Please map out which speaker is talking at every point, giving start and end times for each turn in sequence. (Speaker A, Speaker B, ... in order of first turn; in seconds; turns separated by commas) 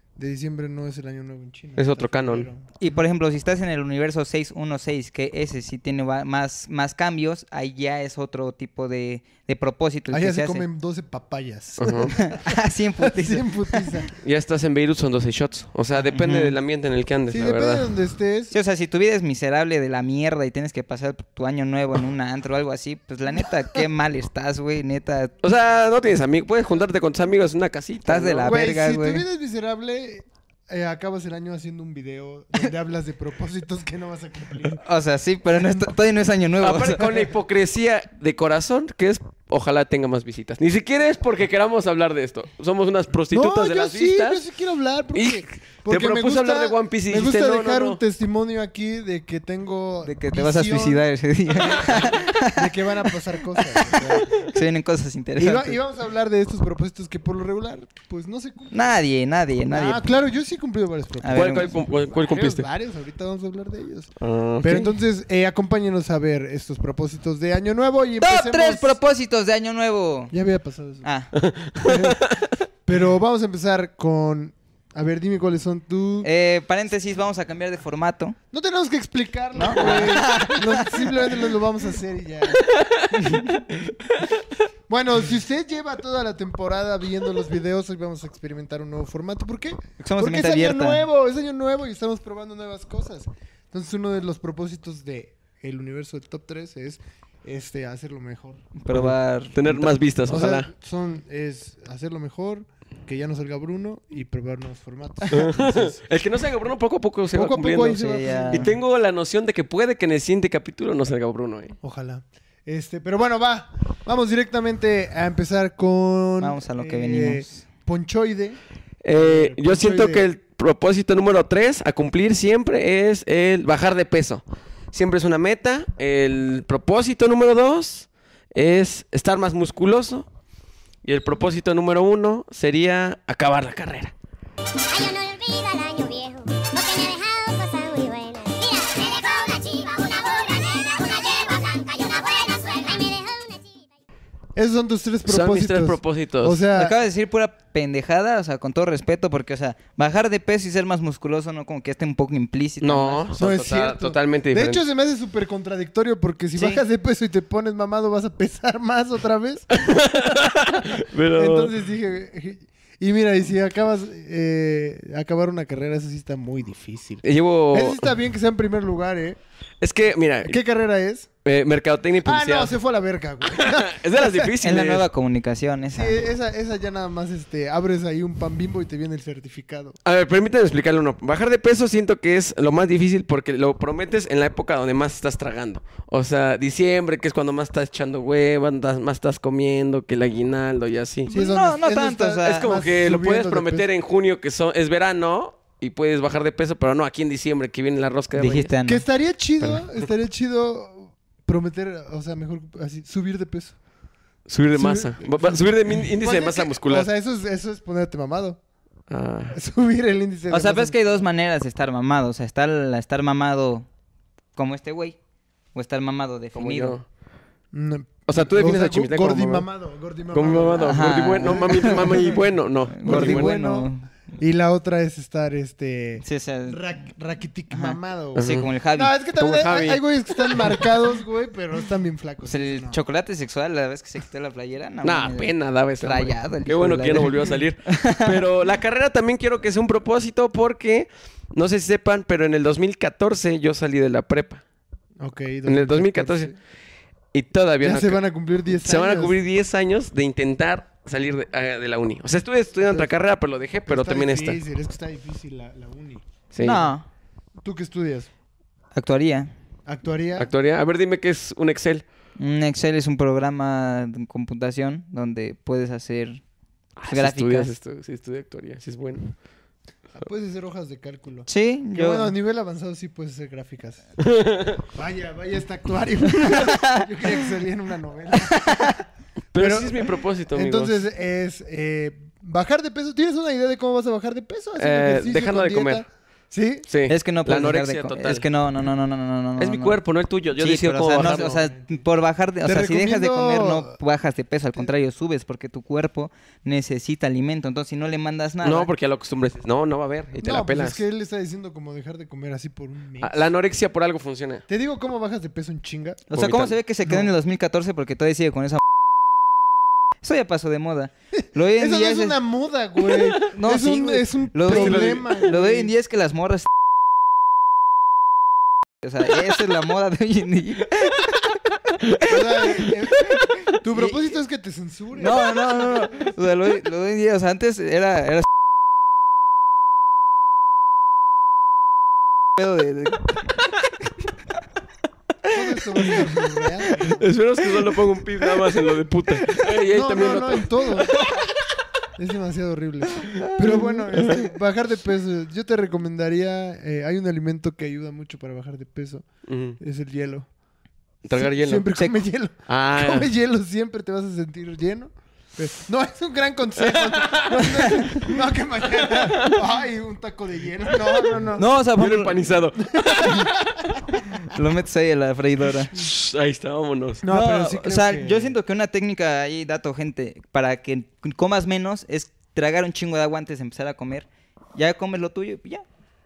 Speaker A: 0.2-2.9, Speaker B: 1.8-2.5, Speaker C: 2.8-10.7, Speaker A: 10.1-14.1, Speaker B: 11.8-12.2, Speaker C: 12.1-14.1, Speaker B: 14.2-17.9, Speaker C: 16.0-16.6, Speaker A: 17.3-18.6, Speaker C: 18.5-25.3, Speaker B: 25.4-28.5, Speaker C: 28.1-29.2, Speaker A: 28.5-34.8, Speaker C: 34.8-37.1, Speaker B: 36.6-44.4, Speaker A: 43.3-54.4, Speaker B: 45.1-48.0, Speaker C: 50.0-55.8, Speaker A: 55.4-59.0, Speaker C: 58.7-60.0, Speaker A: 59.7-64.1, Speaker C: 61.2-61.7, Speaker B: 61.3-62.6, Speaker B: 64.2-65.0, Speaker A: 64.6-69.0, Speaker C: 68.2-70.3, Speaker A: 70.3-71.1, Speaker C: 71.0-71.3, Speaker B: 71.3-72.5, Speaker A: 71.8-72.3, Speaker A: 72.9-76.3, Speaker C: 76.2-78.4, Speaker A: 78.5-82.7, Speaker C: 79.6-81.3, Speaker B: 82.6-83.0, Speaker C: 83.1-83.7, Speaker A: 84.9-98.6, Speaker C: 90.0-91.0, Speaker C: 98.8-100.0, Speaker B: 98.9-100.7, Speaker A: 100.3-106.0, Speaker B: 105.3-111.8, Speaker A: 107.3-108.8, Speaker C: 108.0-108.7, Speaker A: 111.8-118.6, Speaker C: 116.4-117.6, Speaker B: 119.0-130.3, Speaker A: 119.1-120.3, Speaker B: 131.0-134.1, Speaker D: 134.8-143.9, Speaker A: 144.6-147.0, Speaker B: 145.3-146.6, Speaker C: 146.7-153.2, Speaker B: 152.8-154.8, Speaker A: 153.4-169.4, Speaker C: 156.6-156.8, Speaker B: 159.8-161.7, Speaker B: 167.2-168.1, Speaker B: 169.8-170.6, Speaker A: 170.4-171.3, Speaker B: 171.4-172.8, Speaker A: 172.2-174.6, Speaker B: 173.5-175.1, Speaker C: 174.6-176.2, Speaker A: 175.9-180.0, Speaker B: 180.0-191.3, Speaker A: 191.3-193.9, Speaker C: 191.3-192.7, Speaker B: 192.4-198.7, Speaker C: 198.3-199.0, Speaker A: 198.8-203.8, Speaker B: 199.6-199.9, Speaker B: 204.5-207.1, Speaker A: 204.7-208.6, Speaker B: 209.1-209.6, Speaker A: 209.5-211.3, Speaker C: 210.5-213.9, Speaker C: 214.6-215.2, Speaker C: 215.7-217.0, Speaker B: 216.6-217.0, Speaker A: 217.7-222.5, Speaker B: 218.3-219.7, Speaker B: 220.3-223.6, Speaker C: 220.8-222.3, Speaker C: 222.9-224.1, Speaker A: 223.1-233.0, Speaker C: 226.2-226.8, Speaker C: 227.7-229.2, Speaker B: 228.4-228.7, Speaker B: 229.4-230.8, Speaker C: 232.4-238.4, Speaker B: 235.0-244.6, Speaker A: 245.2-246.6, Speaker B: 245.7-246.5, Speaker B: 247.3-248.2, Speaker A: 247.8-249.4, Speaker B: 248.8-254.6, Speaker A: 252.8-253.1, Speaker A: 253.9-256.2, Speaker B: 256.5-256.9, Speaker C: 256.6-257.1, Speaker A: 257.6-258.3, Speaker C: 258.9-259.5, Speaker A: 259.9-260.5, Speaker B: 260.4-262.0, Speaker C: 262.4-266.4, Speaker B: 267.0-269.3, Speaker C: 267.1-267.7, Speaker A: 270.1-274.1, Speaker C: 271.5-272.3, Speaker B: 274.2-274.8, Speaker A: 274.9-279.0, Speaker C: 276.6-277.0, Speaker C: 278.5-279.0, Speaker B: 279.5-281.0, Speaker A: 279.6-286.9, Speaker B: 284.8-286.1, Speaker B: 286.9-288.4, Speaker C: 287.1-290.0, Speaker B: 289.6-291.5, Speaker C: 290.6-298.9, Speaker A: 291.1-292.0, Speaker A: 292.6-294.0, Speaker B: 298.6-301.0, Speaker A: 300.4-303.5, Speaker B: 303.2-304.6, Speaker A: 304.7-306.3, Speaker C: 306.3-308.8, Speaker B: 306.3-306.8, Speaker A: 307.1-307.3, Speaker C: 310.2-312.4, Speaker A: 311.6-315.9, Speaker C: 313.4-316.7, Speaker B: 314.7-315.4, Speaker C: 319.0-321.5, Speaker C: 322.1-324.1, Speaker A: 322.3-326.2, Speaker C: 325.2-328.5, Speaker C: 332.6-333.4, Speaker A: 335.5-337.3, Speaker B: 337.1-340.7, Speaker A: 339.6-341.2, Speaker A: 342.2-349.3, Speaker B: 343.7-344.5, Speaker B: 349.5-349.8, Speaker A: 349.8-350.5, Speaker B: 351.2-351.9, Speaker A: 351.3-361.7, Speaker B: 352.7-353.3, Speaker B: 356.9-357.9, Speaker B: 359.1-359.6, Speaker C: 361.6-362.4, Speaker B: 362.0-364.0, Speaker A: 362.9-363.5, Speaker C: 364.3-366.0, Speaker B: 365.9-367.2, Speaker A: 367.2-368.6, Speaker C: 367.3-375.9